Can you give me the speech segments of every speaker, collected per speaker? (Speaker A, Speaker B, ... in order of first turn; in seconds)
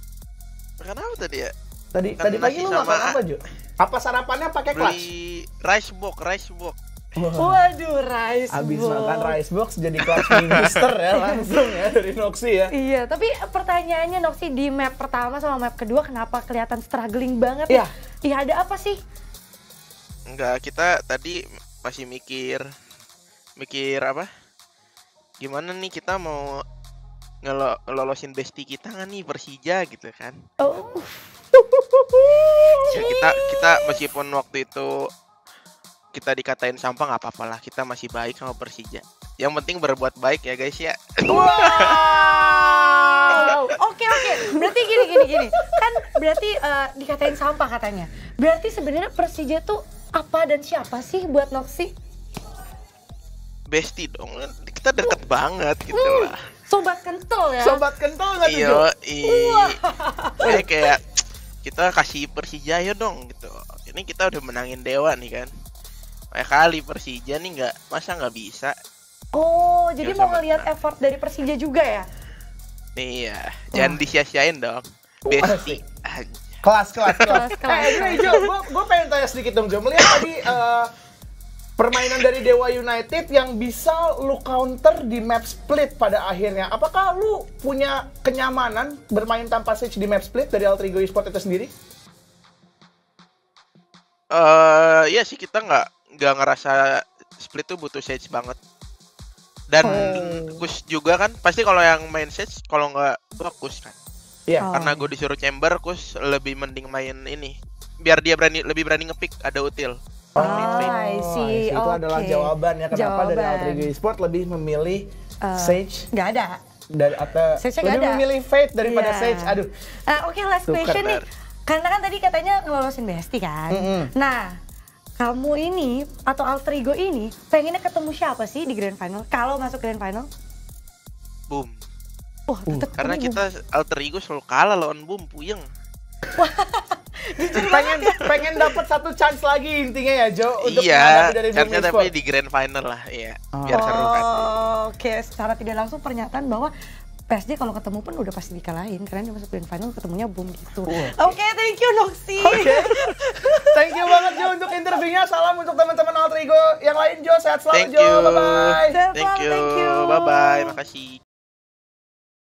Speaker A: 0.8-1.5, 2.2-3.2, 4.7-6.8, 10.2-10.8, 20.3-22.6, 23.6-24.3, 25.4-26.5, 27.4-30.3, 32.9-34.9, 36.1-43.6, 45.1-45.4, 53.7-56.4, 58.4-59.7, 60.4-61.0, 61.6-65.5, 66.3-68.7, 70.0-70.7, 73.0-76.5, 77.0-77.4, 94.3-98.6, 99.7-103.9, 104.7-111.0, 120.8-121.2, 131.5-131.8, 132.9-135.6, 140.6-144.6, 157.7-161.2
Speaker B: 1.9-5.1, 7.2-7.6, 8.5-12.7, 31.6-32.8, 41.3-43.5, 57.6-58.9, 60.4-60.7, 75.3-75.8, 76.6-80.9, 81.8-91.7, 99.8-100.5, 110.3-116.1, 116.9-119.7, 120.7-121.0, 123.7-124.1, 137.6-142.1, 143.5-144.0, 150.8-151.2, 152.4-153.1, 153.7-159.0
Speaker C: 7.3-9.4, 11.2-11.5, 12.7-19.0, 30.6-31.3, 32.3-33.9, 43.3-51.9, 55.9-57.8, 59.2-60.6, 69.3-72.1, 77.3-78.5, 99.8-100.2, 104.6-105.1, 110.4-113.9, 115.4-116.6, 117.6-118.2, 118.8-124.6, 125.2-130.3, 132.5-133.4, 136.3-138.7, 143.7-146.7, 147.3-154.4, 158.9-160.7